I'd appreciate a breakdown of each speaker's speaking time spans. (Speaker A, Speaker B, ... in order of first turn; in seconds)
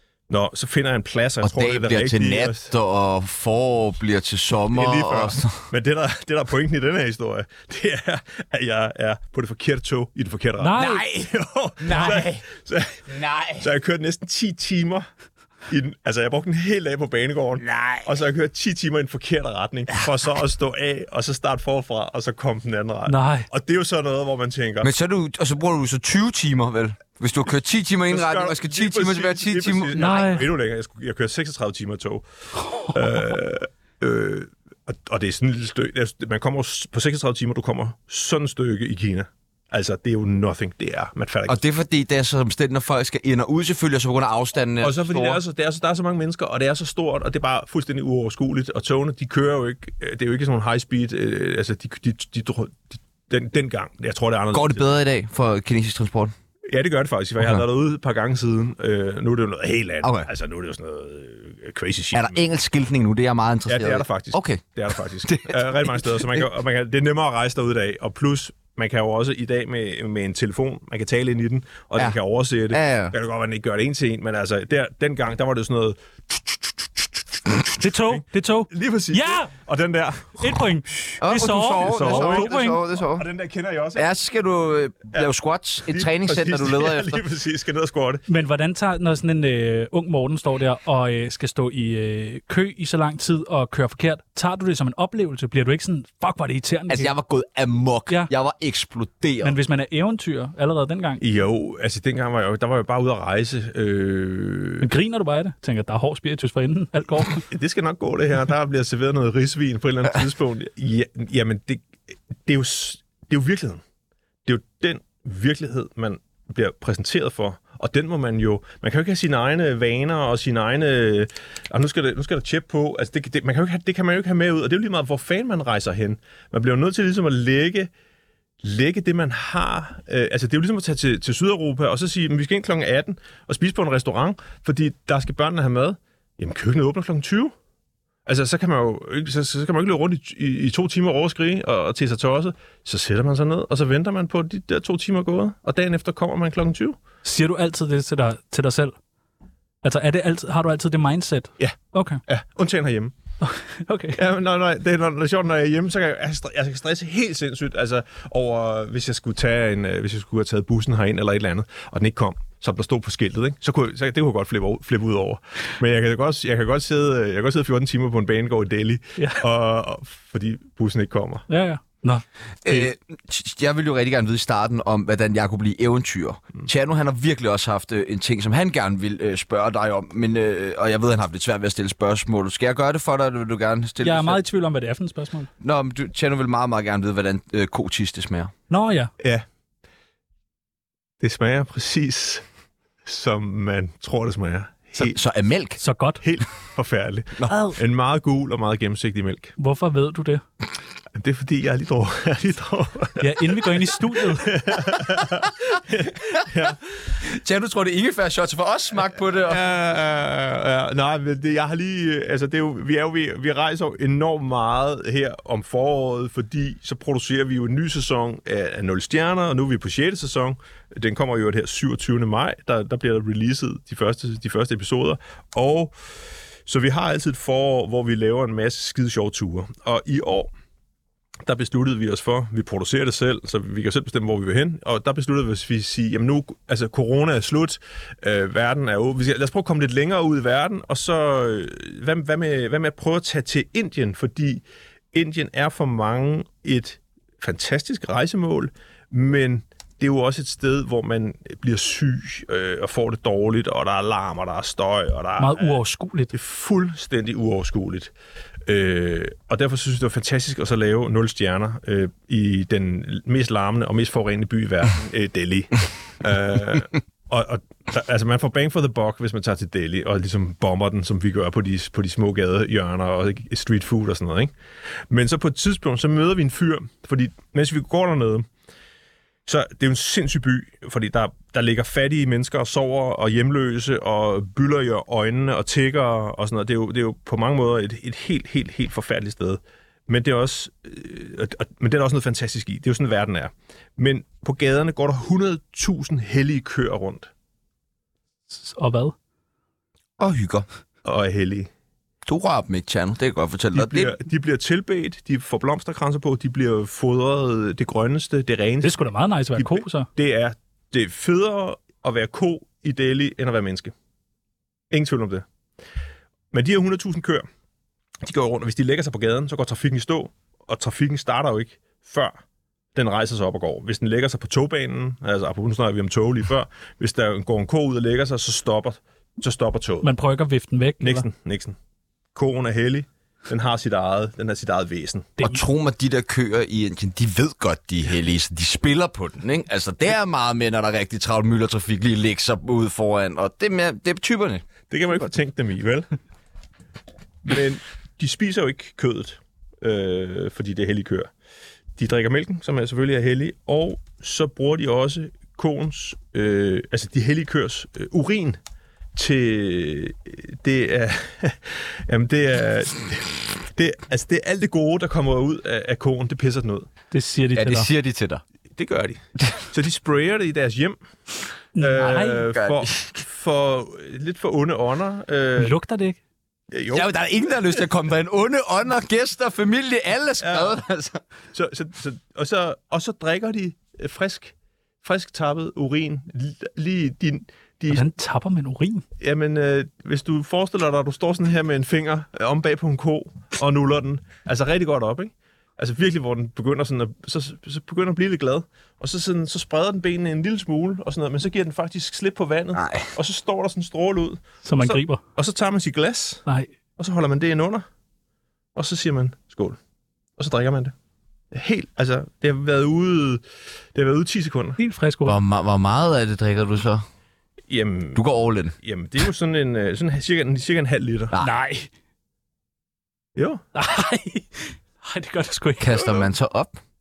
Speaker A: 0.3-2.7, 4.7-15.1, 15.7-24.9, 28.1-32.2, 32.8-41.6, 44.8-54.9, 56.7-62.4, 63.7-84.1, 85.9-88.2, 101.2-104.9, 107.5-113.8, 114.5-127.9, 128.6-137.5, 138.3-147.0, 151.6-153.2, 154.2-171.5, 189.2-189.4, 191.2-192.4, 193.1-195.2, 196.2-199.5, 201.1-206.8, 209.4-225.9, 226.7-230.5, 231.4-255.8, 256.3-258.1, 258.7-274.5, 275.1-278.5, 279.5-297.3, 301.1-301.7, 303.7-309.0, 309.6-313.9, 314.9-315.4, 316.5-317.5, 318.2-322.4, 322.9-330.1, 331.0-331.8, 332.4-335.4, 344.9-346.1, 347.4-351.3, 352.0-358.6, 359.1-366.9, 368.8-371.0, 371.8-375.8, 376.7-377.1, 380.4-380.8, 381.5-388.1, 389.2-406.4, 407.0-407.9, 408.8-409.8, 410.4-410.9, 411.5-413.4, 413.9-414.8, 417.7-418.3, 418.8-421.3, 423.4-423.6
Speaker B: 1.4-5.6, 10.8-12.4, 13.1-13.7, 17.6-18.1, 24.8-30.4, 41.5-45.4, 54.5-56.3, 60.0-60.3, 62.1-66.5, 72.7-73.1, 81.2-83.3, 84.0-87.2, 96.9-99.6, 172.6-184.4, 185.6-188.5, 195.0-195.8, 207.2-209.6, 300.2-300.7, 302.2-304.2, 335.4-344.6, 367.6-368.4, 372.4-373.2, 376.9-381.2, 402.8-403.1, 415.2-417.0, 418.1-418.8, 425.8-426.8
Speaker C: 10.6-11.1, 23.1-23.5, 30.0-30.5, 32.7-33.0, 77.8-79.5, 80.4-82.8, 88.3-97.1, 99.4-101.2, 104.8-107.5, 147.2-149.0, 149.8-152.2, 153.4-154.2, 169.2-169.4, 171.5-172.9, 184.0-185.5, 188.7-189.1, 195.8-196.2, 197.5-197.8, 199.6-200.4, 203.2-204.6, 255.4-256.3, 298.5-299.1, 308.8-310.1, 330.0-331.3, 367.1-367.9, 371.8-372.4, 375.6-376.2, 387.9-389.0, 404.6-405.2, 414.8-415.4, 421.4-421.9, 423.8-426.0